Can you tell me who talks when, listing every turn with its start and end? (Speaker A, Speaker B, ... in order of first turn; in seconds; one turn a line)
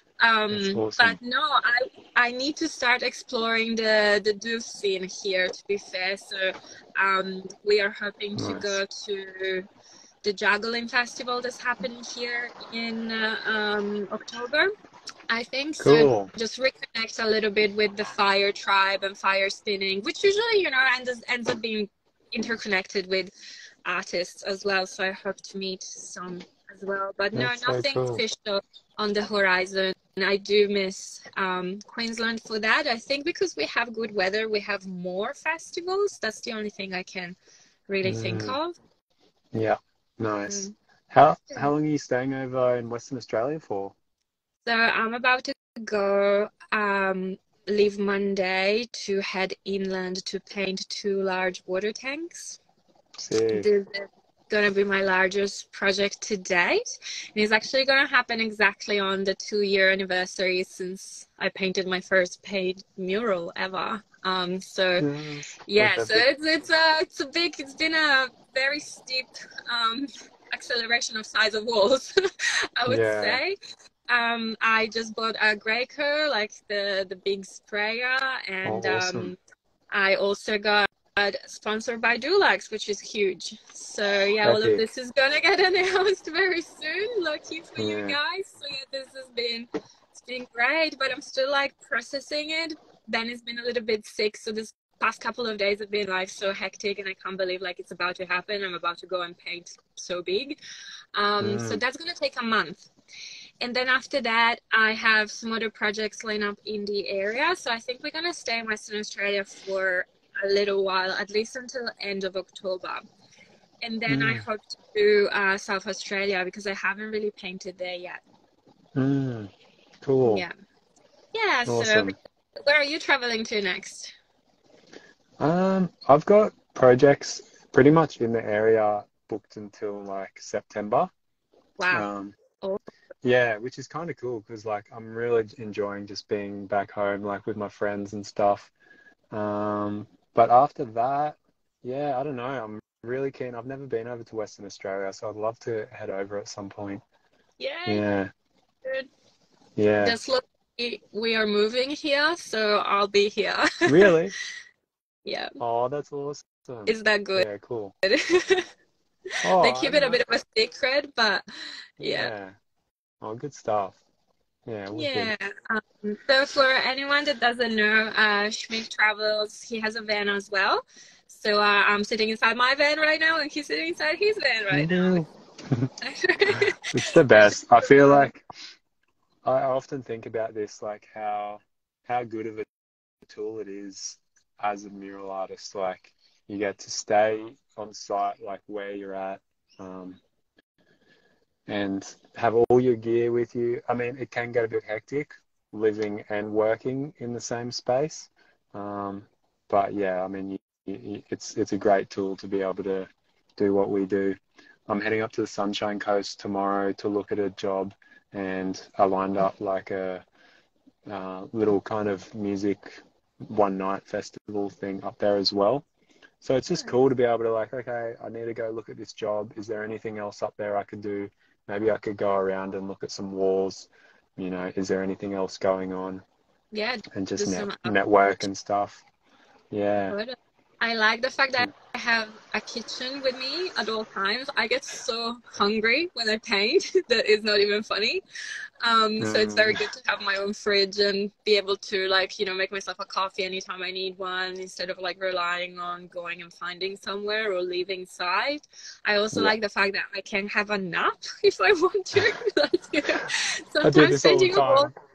Speaker A: 0.2-9.7
Speaker B: 0.5-1.2
Speaker B: 8.4-8.8
Speaker A: 10.2-14.7
Speaker A: 15.3-23.3
Speaker B: 15.8-16.3
Speaker A: 23.8-37.4
Speaker B: 27.3-28.2
Speaker A: 37.9-38.7
Speaker B: 38.0-38.6
Speaker B: 39.5-44.0
Speaker A: 40.5-40.7
Speaker A: 44.6-52.6
Speaker B: 53.2-53.7
Speaker A: 53.5-65.1
Speaker B: 65.0-66.2
Speaker A: 65.7-73.5
Speaker B: 72.9-73.4
Speaker A: 74.1-79.4
Speaker B: 78.6-79.3
Speaker A: 79.9-100.6
Speaker B: 84.4-84.8
Speaker B: 87.8-88.2
Speaker A: 101.1-102.9
Speaker B: 101.4-101.8
Speaker A: 103.6-113.0
Speaker A: 113.8-118.2
Speaker B: 114.1-114.4
Speaker B: 118.9-119.5
Speaker B: 120.0-120.5
Speaker A: 120.2-120.5
Speaker A: 121.3-124.1
Speaker B: 121.7-122.2
Speaker B: 125.4-131.1
Speaker A: 131.8-132.1
Speaker B: 131.9-132.3
Speaker B: 133.2-138.7
Speaker B: 139.3-147.0
Speaker A: 147.6-148.0
Speaker B: 147.8-148.3
Speaker B: 149.8-150.2
Speaker A: 150.0-154.1
Speaker B: 153.8-154.3
Speaker A: 155.2-155.6
Speaker B: 155.6-157.9
Speaker A: 156.9-157.5
Speaker A: 158.0-158.7
Speaker B: 159.4-160.2
Speaker A: 159.5-161.4
Speaker A: 162.0-162.3
Speaker B: 162.0-162.5
Speaker B: 163.2-164.0
Speaker B: 164.7-165.3
Speaker A: 164.9-175.3
Speaker B: 174.7-175.9
Speaker A: 176.0-178.3
Speaker B: 176.6-178.4
Speaker B: 179.4-182.7
Speaker B: 183.2-190.2
Speaker B: 191.7-204.4
Speaker B: 204.9-210.2
Speaker B: 211.1-215.8
Speaker B: 216.4-226.2
Speaker A: 226.7-228.0
Speaker B: 227.1-229.0
Speaker B: 229.7-230.2
Speaker A: 230.1-238.2
Speaker A: 238.8-254.9
Speaker B: 239.2-239.8
Speaker B: 253.8-254.9